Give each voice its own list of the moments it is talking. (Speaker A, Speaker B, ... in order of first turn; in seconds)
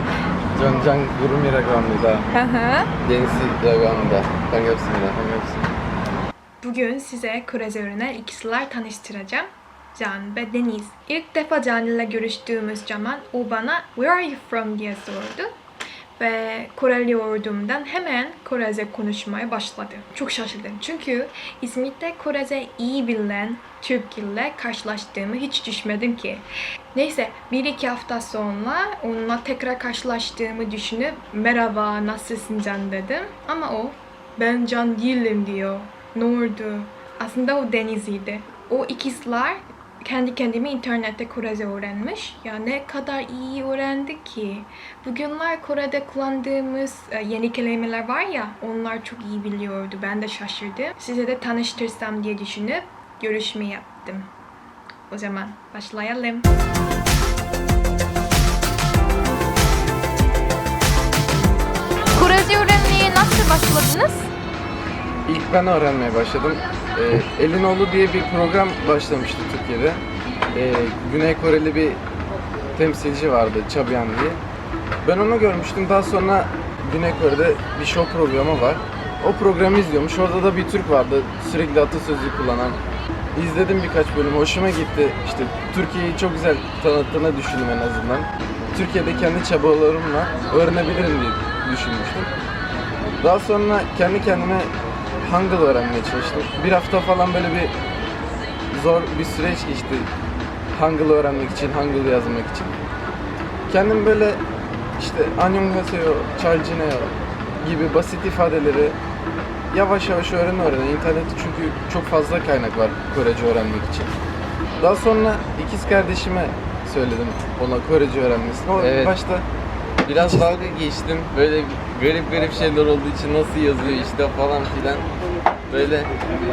Speaker A: 0.6-2.2, 5.2-5.6, 65.3-70.0, 70.5-72.0, 72.8-74.4, 75.0-82.8, 83.3-92.3, 93.2-94.7, 95.2-97.7, 98.7-100.1, 100.7-102.7, 103.7-104.4, 105.0-109.0, 109.7-114.1, 114.8-119.5, 120.1-120.5
Speaker B: 2.3-2.9, 6.6-15.5, 16.2-54.3, 55.1-56.5, 62.1-64.3
Speaker C: 3.0-5.2, 118.8-119.2, 120.0-125.1, 125.7-126.1